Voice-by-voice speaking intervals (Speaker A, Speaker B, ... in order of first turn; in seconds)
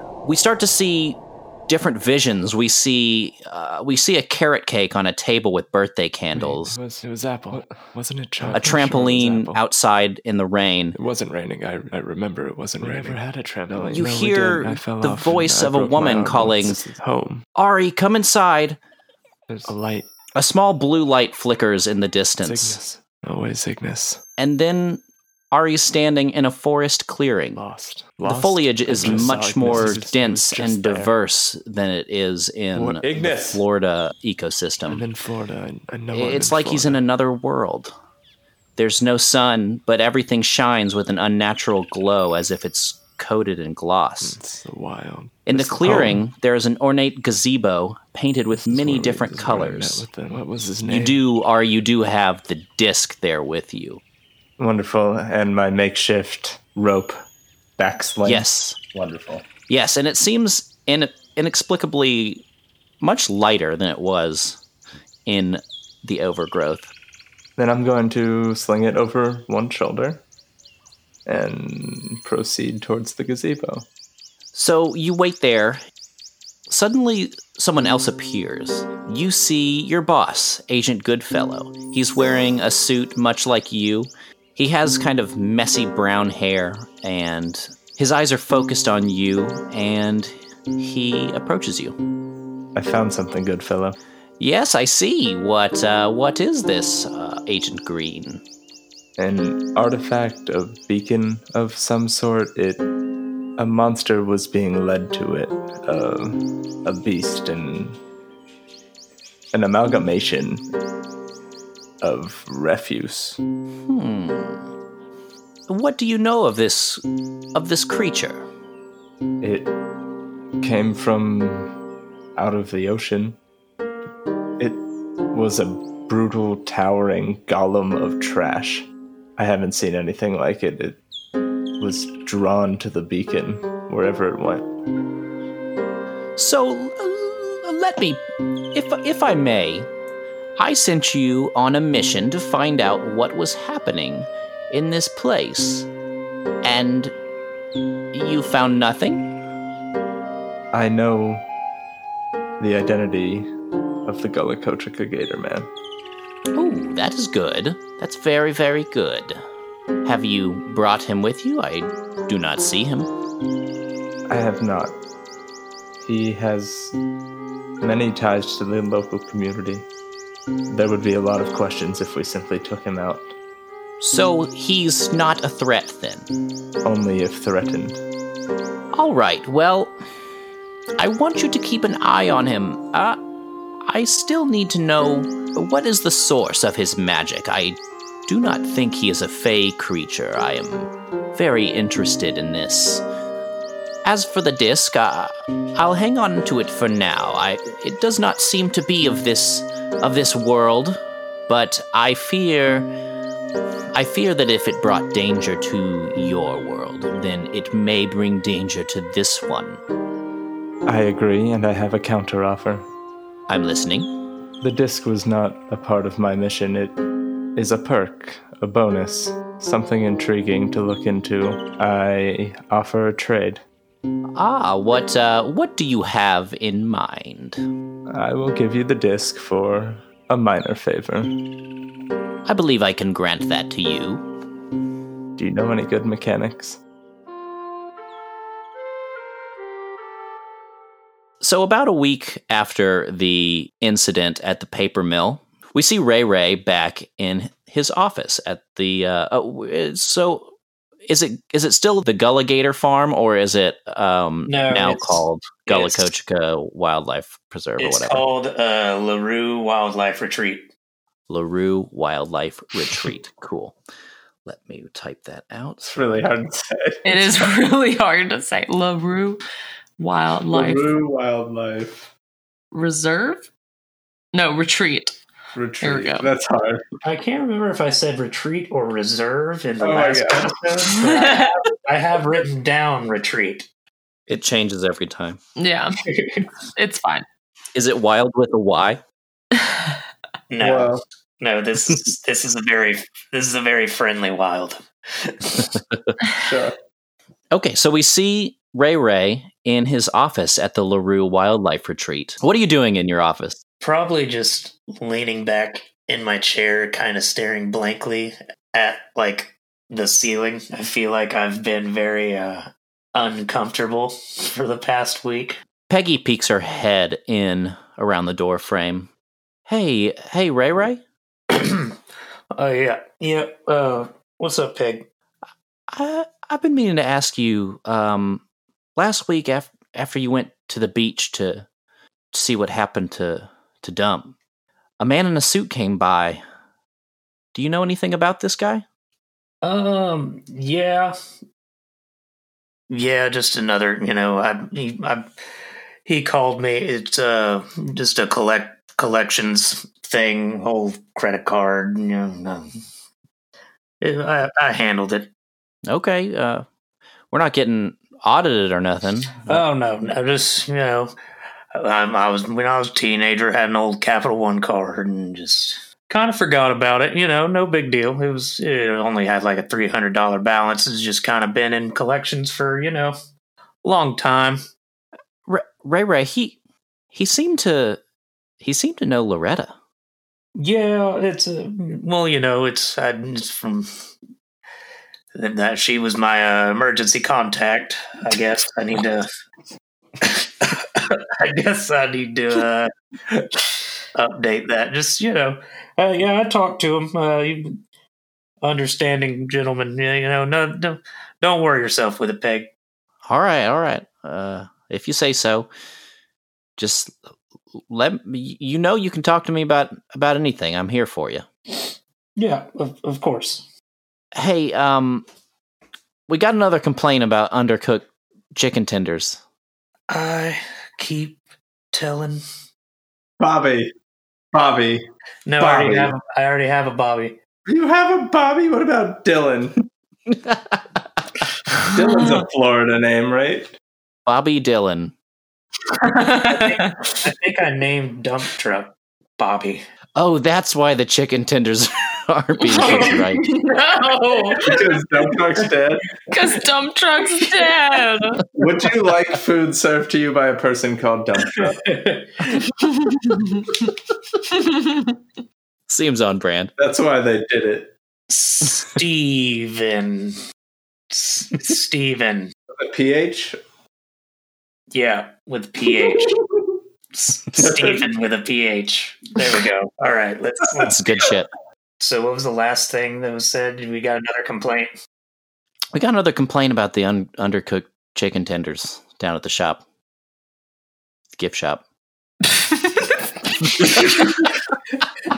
Speaker A: 0.2-6.8, 8.5-11.0, 12.9-13.2, 13.8-16.8, 17.6-18.8, 20.4-22.8, 24.4-27.6, 28.2-35.1, 36.1-37.9, 38.8-44.4, 45.5-50.1, 50.9-54.0, 58.2-58.8, 59.7-62.5, 63.0-64.6, 65.3-66.9, 74.5-75.8, 76.7-92.0, 94.4-98.4, 113.9-114.6, 115.7-117.0, 117.5-118.5, 136.4-138.2, 138.7-139.9, 140.6-145.9, 146.6-147.1, 148.1-149.3, 156.6-159.4, 160.1-163.1, 174.0-176.3, 178.9-179.9, 181.0-183.2, 183.9-193.0, 194.1-202.9, 203.9-209.8, 213.5-214.1, 224.4-227.6, 232.4-234.2, 241.4-250.5, 251.1-258.3, 261.3-263.8, 264.5-266.2, 284.3-285.4, 287.8-289.0, 297.5-303.6, 315.9-319.1, 319.7-321.0, 325.9-328.4, 329.0-331.7, 332.3-334.3, 335.0-336.4, 337.6-338.8, 355.9-356.6, 357.3-359.6, 375.5-376.6, 377.1-378.0, 378.6-379.7, 403.2-405.7, 406.8-407.1, 407.9-411.4, 414.3-415.3, 416.3-419.4, 430.4-430.8, 434.3-435.1, 440.2-443.4, 455.9-456.7, 470.8-471.5, 475.9-479.8, 481.4-481.8
Speaker B: 6.3-9.5, 11.6-12.0, 12.6-17.3, 19.5-20.0, 22.4-23.9, 27.6-31.1, 34.9-37.0, 44.5-46.2, 48.6-51.2
Speaker C: 6.7-9.6, 11.0-17.4, 19.5-20.1, 22.5-24.2, 27.6-28.4, 29.0-31.0, 32.9-33.6, 36.1-36.9, 44.3-46.0, 50.1-51.1, 54.6-57.2, 57.8-59.5, 67.6-70.2, 71.3-73.9, 92.8-94.0, 99.2-102.9, 103.6-108.0, 109.5-110.7, 112.0-113.4, 119.4-119.7, 120.6-121.7, 122.4-123.4, 124.6-131.0, 131.8-134.7, 150.7-151.4, 152.6-153.5, 154.1-155.7, 164.3-165.0, 166.0-166.9, 167.8-169.9, 170.7-173.3, 176.8-178.0, 210.9-212.9, 214.6-217.0, 217.6-223.6, 228.1-231.3, 235.4-236.8, 265.9-267.3, 270.5-272.1, 275.6-276.9, 279.8-280.5, 290.6-291.0, 296.3-296.8, 423.4-423.9, 424.5-425.1, 425.6-426.1, 427.7-429.8, 431.8-433.7, 444.6-446.1, 448.5-452.0, 456.8-457.9, 462.8-463.6, 466.0-466.7, 467.5-468.1
Speaker D: 254.5-256.1, 257.8-260.7, 277.0-283.7, 290.5-295.8, 303.8-315.6, 321.5-322.0, 322.6-325.1, 339.6-341.1, 342.9-345.3, 346.1-352.7, 354.0-355.3, 359.5-361.1, 361.8-373.1, 373.8-374.6, 380.6-383.9, 385.4-389.3, 390.2-397.8, 398.6-402.7, 412.4-413.7, 420.1-421.4, 421.9-422.4, 425.5-427.4, 436.5-439.9, 442.8-443.2, 451.6-452.6, 458.3-460.4, 461.1-462.5, 464.9-466.4, 467.1-471.0, 472.0-474.9
Speaker E: 267.0-269.4, 270.0-270.9, 272.7-273.5, 274.3-275.2, 275.8-276.3, 280.9-281.6, 285.6-286.0, 286.6-287.2, 435.9-437.0, 442.7-444.8, 446.3-448.4, 453.1-453.8, 454.5-455.1, 482.6-483.2